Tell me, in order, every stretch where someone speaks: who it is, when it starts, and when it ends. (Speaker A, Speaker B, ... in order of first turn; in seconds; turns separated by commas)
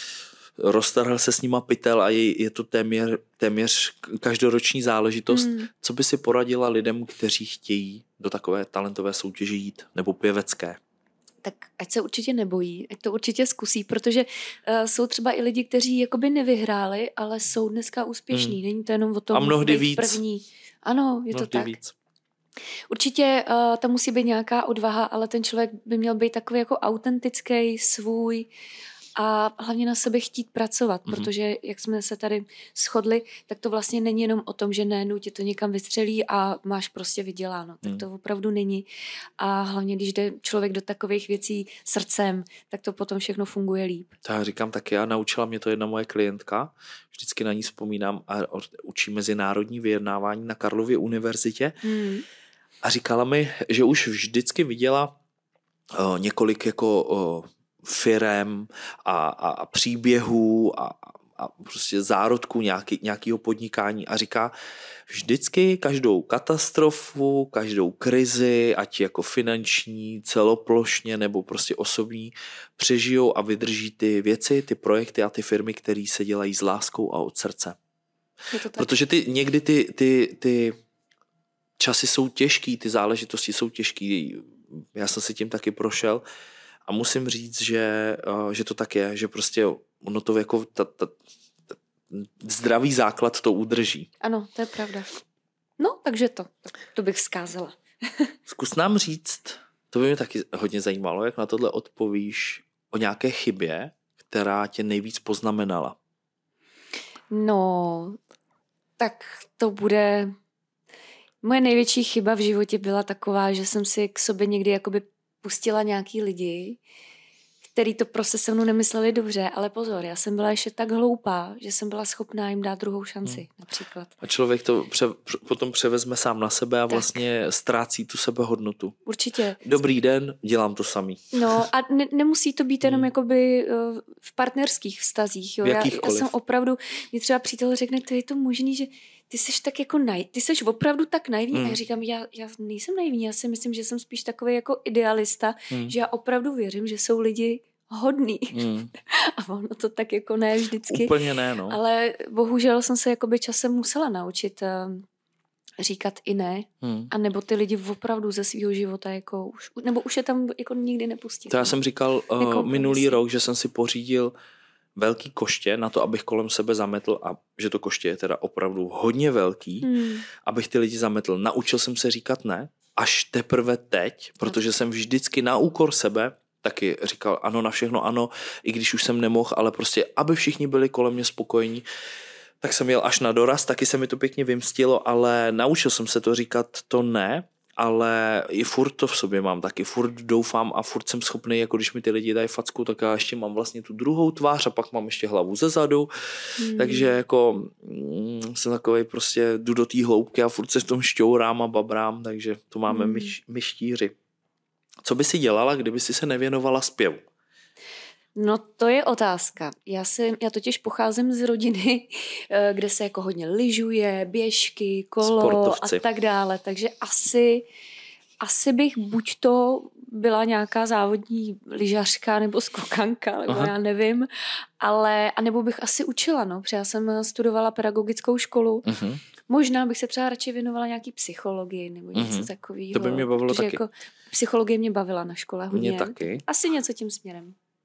Speaker A: 0.6-10.8, Speaker B: 5.3-5.7, Speaker B: 11.4-21.8, Speaker A: 18.3-18.6, Speaker A: 19.3-20.2, Speaker A: 21.3-21.9, Speaker B: 22.9-28.5, Speaker B: 29.2-38.9, Speaker B: 39.4-44.1, Speaker A: 44.2-51.8, Speaker B: 51.8-52.2, Speaker A: 52.8-55.1, Speaker A: 55.9-64.5, Speaker A: 65.1-77.8, Speaker B: 78.5-78.9, Speaker A: 78.8-80.8, Speaker A: 81.8-86.2, Speaker A: 86.9-91.1, Speaker A: 92.1-94.1, Speaker B: 94.2-95.1, Speaker B: 95.8-98.3, Speaker A: 98.5-106.0, Speaker B: 107.3-108.2, Speaker B: 109.0-110.3, Speaker B: 111.4-116.8, Speaker B: 117.7-124.2, Speaker A: 124.2-129.0, Speaker B: 129.1-129.6, Speaker A: 129.6-131.7, Speaker B: 131.3-155.1, Speaker A: 135.6-136.3, Speaker A: 141.5-141.8, Speaker A: 148.5-148.9, Speaker A: 150.9-151.8, Speaker B: 155.8-161.8, Speaker A: 156.8-157.1, Speaker A: 161.5-164.3, Speaker B: 162.4-163.2, Speaker A: 165.0-169.9, Speaker B: 169.8-170.3, Speaker A: 170.4-181.8, Speaker A: 182.6-196.1, Speaker B: 196.6-197.1, Speaker A: 196.7-204.2, Speaker B: 202.9-203.3, Speaker A: 205.1-207.2, Speaker B: 208.4-217.7, Speaker A: 215.2-216.0, Speaker B: 218.4-224.3, Speaker B: 224.8-228.9, Speaker A: 228.9-229.2, Speaker B: 229.5-237.6, Speaker A: 232.2-233.8, Speaker A: 235.7-236.4